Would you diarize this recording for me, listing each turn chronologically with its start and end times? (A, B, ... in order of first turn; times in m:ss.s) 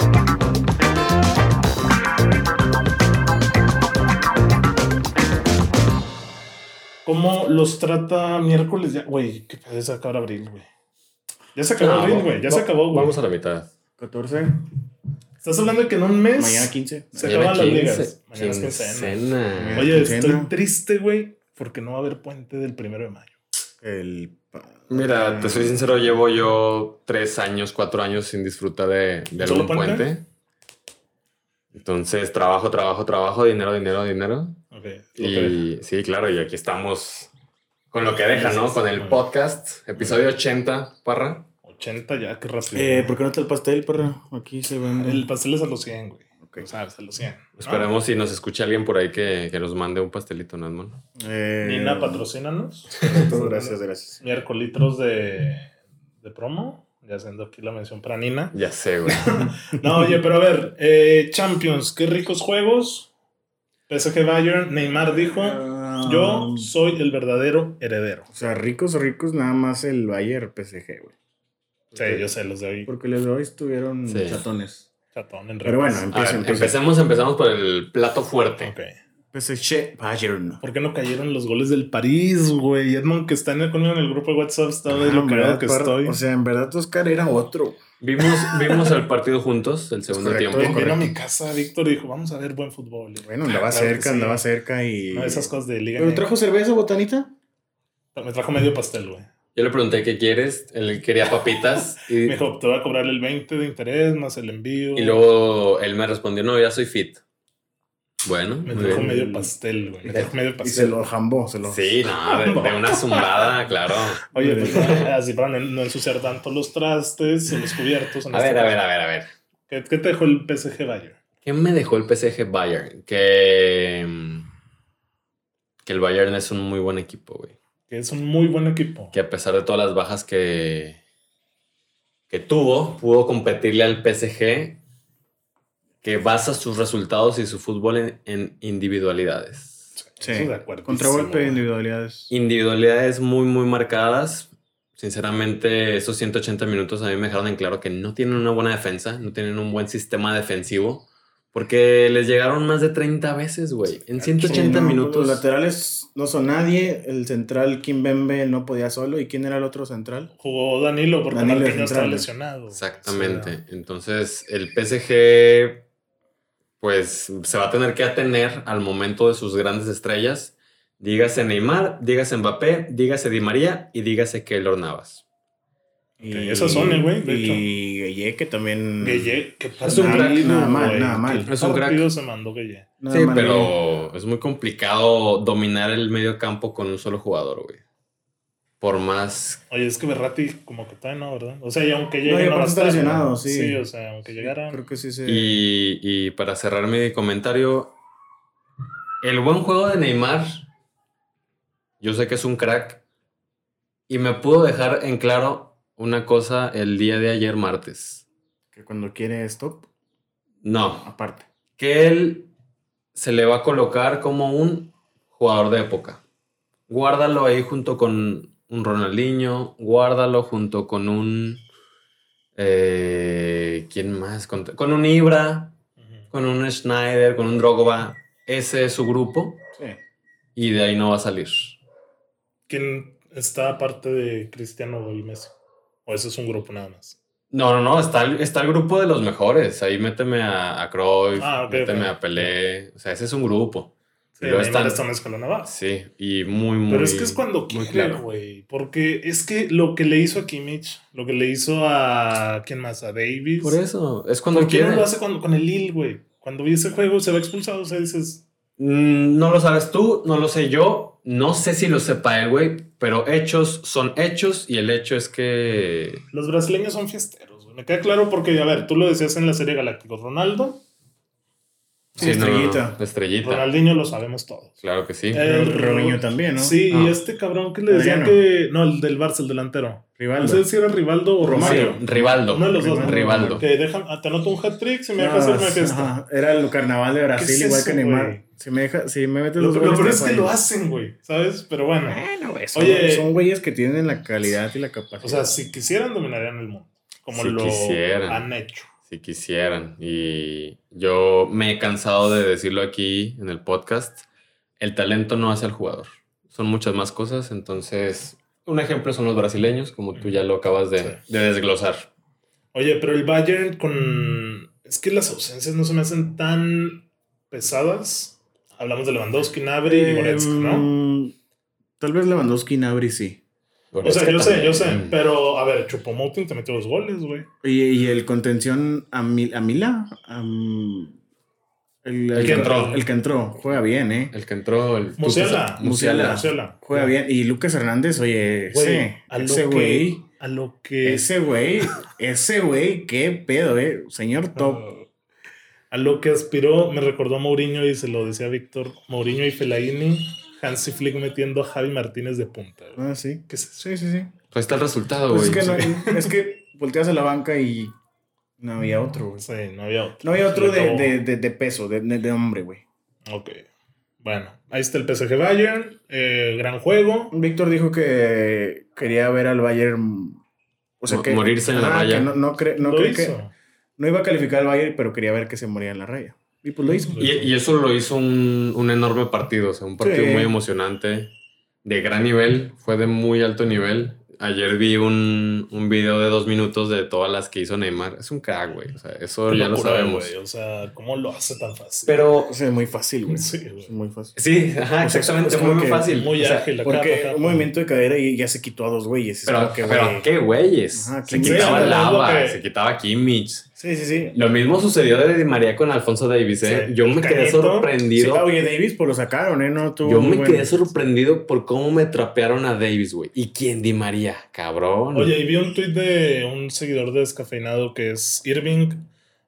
0:07.0-0:10.7 A
0:11.6-0:13.1 A
0:11.8-0:13.7 B
0:14.0-0:14.6 C
0:15.4-0:23.3 A
0:16.4-0:17.4 C
0:17.2-0:20.0 B
0:19.6-0:20.5 C
0:23.8-0:26.0 C
0:24.9-0:30.2 B
0:29.4-0:30.1 A
0:31.7-0:34.6 B
0:34.7-0:35.6 A
0:35.2-0:37.3 B
0:37.9-0:41.5 B
0:38.3-0:39.2 A
0:41.6-0:43.2 A
0:42.7-0:45.2 C
0:45.0-0:47.9 A
0:47.6-0:51.0 B
0:51.2-0:52.3 C
0:51.6-0:55.7 A
0:53.0-0:54.2 C
0:56.2-0:58.6 A
0:58.5-0:59.4 B
0:59.1-1:03.1 A
1:03.9-1:08.3 A
1:05.2-1:06.7 C
1:08.3-1:11.2 C
1:11.9-1:12.2 C
1:11.9-1:12.9 A
1:12.9-1:14.9 C
1:14.1-1:14.4 B
1:15.2-1:16.8 A
1:15.6-1:16.8 C
1:16.1-1:18.7 B
1:18.6-1:19.0 A
1:19.3-1:20.6 C
1:20.6-1:26.2 A
1:24.9-1:27.8 C
1:28.0-1:31.0 B
1:28.6-1:28.9 A
1:30.1-1:31.1 C
1:30.6-1:34.4 A
1:33.2-1:37.3 C
1:35.1-1:36.3 A
1:38.2-1:39.3 A
1:39.6-1:42.4 B
1:42.2-1:45.2 A
1:45.0-1:47.2 B
1:48.2-1:49.1 B
1:48.7-1:51.0 A
1:48.7-1:49.5 C
1:50.6-1:52.0 C
1:51.6-1:55.1 B
1:52.3-1:53.5 A
1:54.3-1:58.8 A
1:54.4-1:55.0 C
1:58.3-1:59.3 B
1:59.7-2:01.2 A
2:01.4-2:04.5 B
2:05.8-2:07.6 B
2:07.9-2:09.1 A
2:09.1-2:11.0 B
2:12.3-2:14.8 B
2:16.0-2:19.9 B
2:20.0-2:21.6 A
2:20.2-2:22.3 C
2:22.3-2:35.4 B
2:34.2-2:40.3 C
2:34.4-2:34.8 A
2:40.4-2:43.6 A
2:41.3-2:42.3 C
2:42.7-2:45.8 B
2:46.8-2:55.2 B
2:56.2-2:57.6 A
2:56.2-3:01.5 C
2:59.0-3:02.9 A
2:59.8-3:00.6 B
3:01.5-3:02.1 B
3:03.0-3:03.8 C
3:03.1-3:07.8 B
3:08.8-3:09.6 B
3:09.7-3:14.8 A
3:12.2-3:13.8 C
3:14.4-3:15.6 C
3:15.3-3:18.0 B
3:19.2-3:20.6 B
3:22.0-3:23.0 B
3:24.1-3:28.3 B
3:28.7-3:29.9 C
3:30.6-3:31.1 B
3:31.0-3:31.5 C
3:31.8-3:32.5 B
3:33.2-3:36.2 B
3:36.9-3:41.6 B
3:42.6-3:45.8 B
3:46.3-3:49.6 B
3:50.6-3:51.8 B
3:52.7-3:55.5 A
3:56.1-3:57.2 A
3:57.5-4:05.0 B
4:01.4-4:02.5 A
4:04.4-4:05.7 A
4:05.6-4:08.2 B
4:06.9-4:13.8 A
4:13.6-4:15.1 B
4:14.5-4:18.4 A
4:18.8-4:26.2 B
4:26.3-4:30.8 A
4:32.2-4:32.5 A
4:32.2-4:33.7 B
4:32.2-4:33.0 C
4:33.4-4:34.8 A
4:34.8-4:35.4 B
4:35.3-4:46.2 A
4:35.4-4:36.8 C
4:36.9-4:37.2 B
4:37.9-4:38.4 C
4:40.2-4:40.7 C
4:41.4-4:43.7 C
4:41.6-4:43.6 B
4:45.2-4:50.6 C
4:47.4-4:48.4 A
4:49.6-4:53.3 A
4:52.1-4:55.5 C
4:55.2-4:58.9 A
4:57.3-4:58.5 B
4:59.1-5:04.3 B
5:04.8-5:12.1 B
5:10.2-5:10.4 A
5:12.7-5:20.9 A
5:19.8-5:21.3 C
5:22.0-5:23.4 C
5:23.9-5:25.2 B
5:24.0-5:27.5 A
5:27.6-5:31.2 C
5:32.0-5:34.3 C
5:32.4-5:33.0 B
5:32.4-5:33.0 A
5:34.3-5:36.5 B
5:35.2-5:37.1 A
5:35.8-5:40.3 C
5:38.7-5:41.3 A
5:41.0-5:44.8 C
5:44.5-5:45.1 A
5:45.9-5:53.8 A
5:53.0-5:54.3 C
5:54.5-5:55.8 B
5:55.3-5:58.0 C
5:55.7-5:56.3 A
5:58.6-5:59.4 C
5:59.4-6:01.2 A
6:00.2-6:02.8 C
6:03.3-6:03.7 A
6:04.2-6:07.3 A
6:07.3-6:10.4 C
6:11.0-6:13.4 C
6:11.1-6:12.3 B
6:12.8-6:13.5 A
6:14.0-6:17.5 C
6:17.1-6:17.4 A
6:17.2-6:21.3 B
6:20.0-6:20.5 C
6:21.8-6:30.3 B
6:29.5-6:32.2 A
6:32.1-6:32.6 B
6:32.4-6:34.4 C
6:33.3-6:33.9 A
6:34.4-6:36.7 B
6:35.0-6:36.1 C
6:36.1-6:37.7 A
6:36.8-6:40.3 C
6:39.5-6:43.6 B
6:40.9-6:42.1 C
6:41.3-6:42.6 A
6:43.8-6:44.4 C
6:44.4-6:48.5 B
6:46.6-6:47.9 A
6:48.2-6:50.7 C
6:50.0-6:55.4 B
6:55.1-6:59.1 A